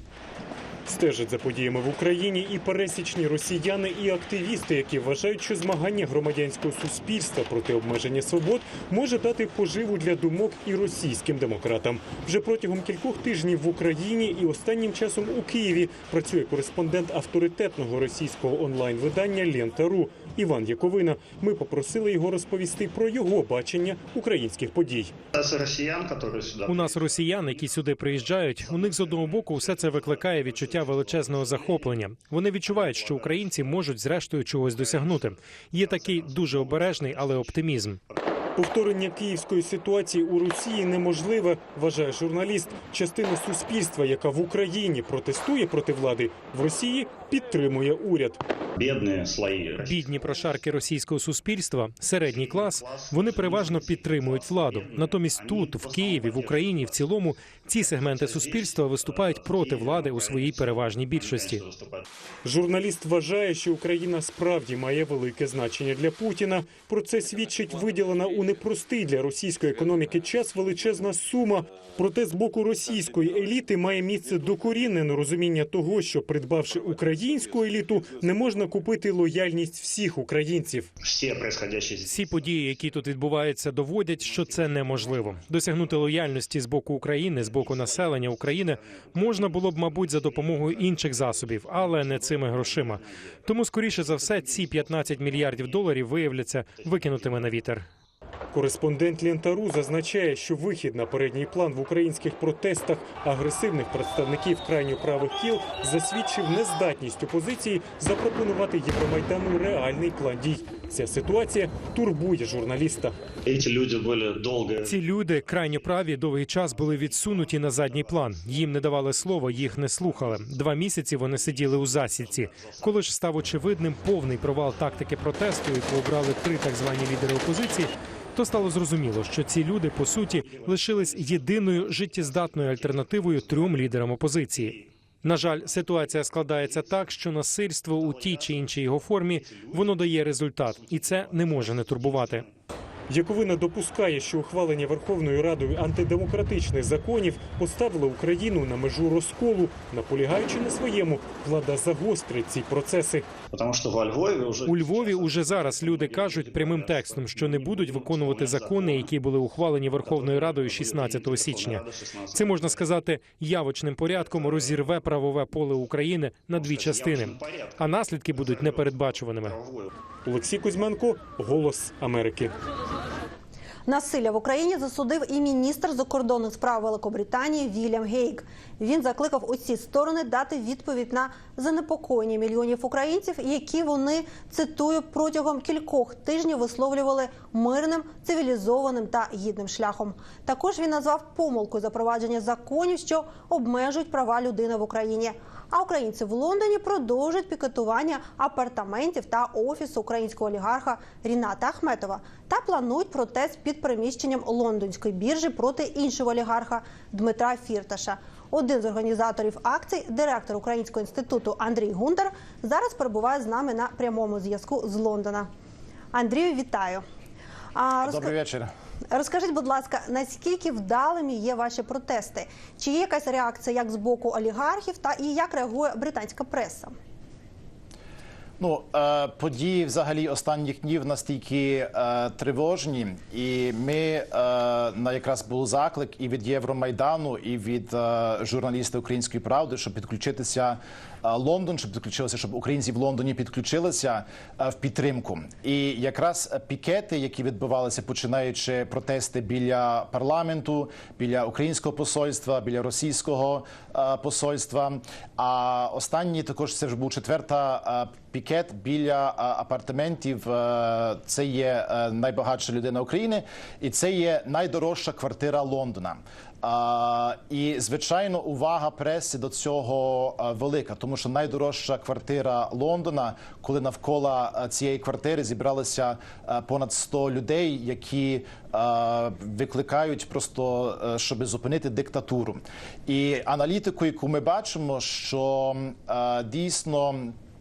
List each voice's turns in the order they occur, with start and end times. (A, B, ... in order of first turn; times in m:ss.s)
0:00.9-0:25.2 A
0:25.3-0:27.8 B
0:26.7-0:38.0 C
0:28.5-0:32.0 B
0:32.6-0:33.8 B
0:34.8-0:38.2 B
0:38.6-0:48.4 A
0:48.8-0:50.1 B
0:49.8-1:01.6 C
0:52.2-1:02.0 B
1:02.4-1:20.9 A
1:21.0-1:22.8 B
1:22.0-1:37.8 C
1:24.2-1:26.3 B
1:27.3-1:36.0 B
1:36.7-1:37.5 B
1:38.5-1:53.2 A
1:53.5-2:00.6 B
1:54.8-2:22.4 C
2:01.3-2:06.0 B
2:06.6-2:07.8 B
2:10.1-2:14.9 B
2:15.5-2:17.1 B
2:17.9-2:22.5 B
2:23.1-2:33.3 A
2:33.5-2:39.1 B
2:34.7-2:49.6 C
2:40.0-2:42.9 B
2:44.1-2:44.9 B
2:46.5-2:49.9 B
2:50.2-2:52.6 A
2:53.9-3:35.5 D
3:36.1-3:37.0 D
3:37.8-3:38.3 D
3:38.0-3:38.7 E
3:39.1-3:46.9 D
3:48.6-4:47.3 E